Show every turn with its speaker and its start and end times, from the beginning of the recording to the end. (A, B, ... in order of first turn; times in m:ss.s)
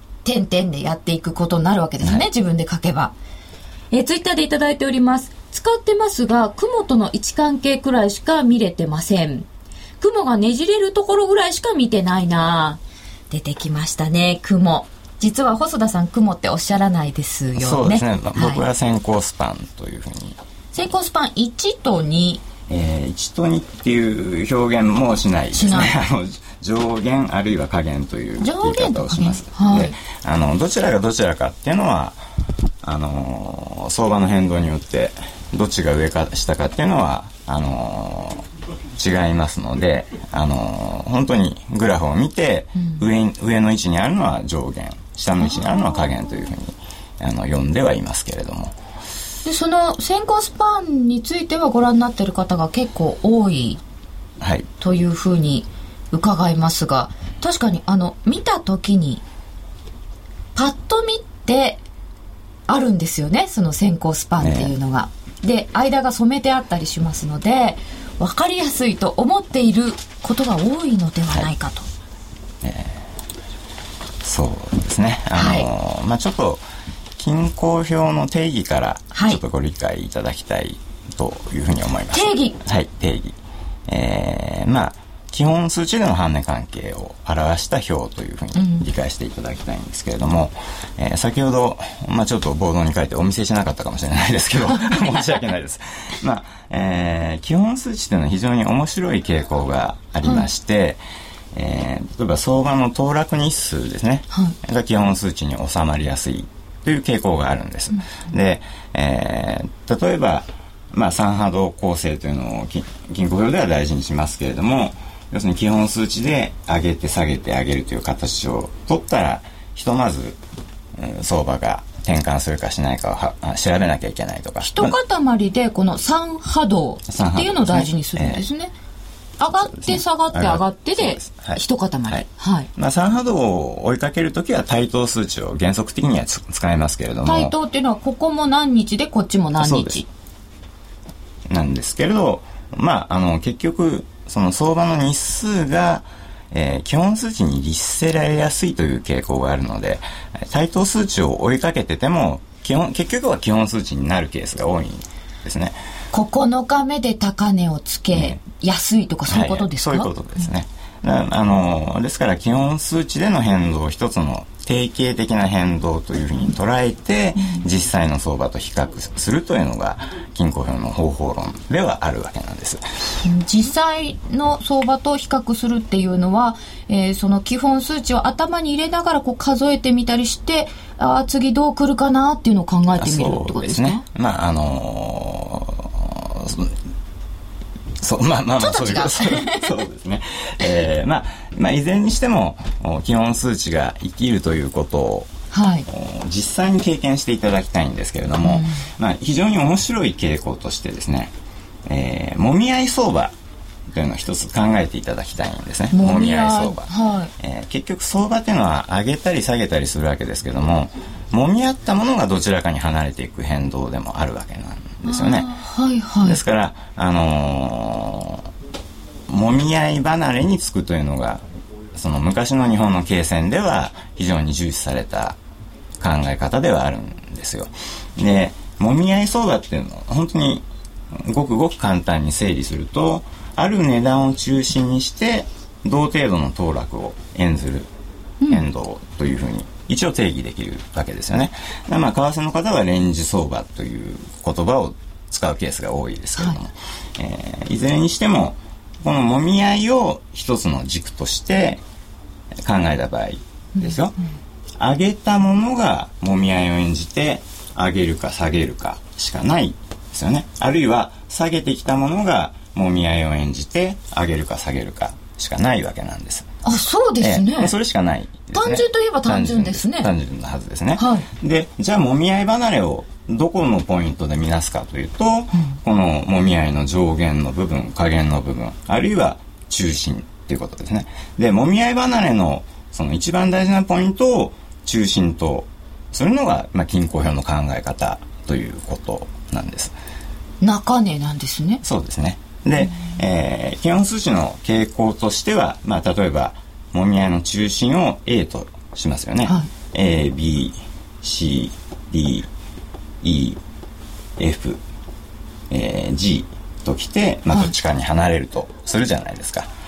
0:00.2-0:03.1 A
0:02.0-0:02.3 B
0:03.9-0:09.5 A
0:10.0-0:18.6 A
0:17.6-0:20.4 B
0:20.7-0:22.4 A
0:22.7-0:32.2 B
0:25.5-0:25.9 A
0:28.4-0:30.0 A
0:32.8-0:48.8 B
0:45.4-0:46.0 A
0:49.4-0:53.8 A
0:54.4-0:54.7 B
0:54.8-0:59.2 A
1:00.6-1:01.8 A
1:02.7-1:11.9 A
1:04.4-1:04.7 B
1:12.6-1:13.0 B
1:14.2-1:16.6 B
1:15.3-1:15.7 A
1:17.2-1:23.4 B
1:19.1-1:19.4 A
1:22.1-1:22.6 A
1:23.9-1:41.0 B
1:28.6-1:28.9 A
1:34.7-1:35.2 A
1:41.5-2:00.4 B
1:44.3-1:44.6 A
2:01.0-2:05.0 B
2:04.6-2:08.7 A
2:07.1-2:08.4 B
2:09.4-2:12.7 A
2:09.5-2:17.5 B
2:17.2-2:20.1 A
2:19.6-2:20.0 B
2:21.5-2:35.8 B
2:36.1-2:40.1 A
2:38.1-2:38.4 B
2:39.3-2:52.8 B
2:53.2-3:04.0 A
3:03.0-3:06.7 B
3:08.0-3:15.3 B
3:08.6-3:09.7 A
3:15.5-3:15.9 A
3:15.9-3:21.3 B
3:18.4-3:18.8 A
3:21.8-3:23.3 B
3:23.9-3:35.5 B
3:25.9-3:27.3 A
3:35.0-3:36.4 A
3:36.2-3:38.5 B
3:39.3-3:41.4 B
3:41.9-3:45.4 B
3:46.0-3:57.9 B
3:58.5-4:11.8 B
4:12.6-4:14.2 B
4:14.8-4:26.5 B
4:26.6-4:27.7 A
4:27.2-4:49.9 B
4:28.5-4:30.1 A
4:31.0-4:31.3 A
4:50.6-4:51.8 A
4:51.8-5:02.5 B
5:03.2-5:03.6 B
5:04.4-5:04.8 B
5:05.7-5:09.7 B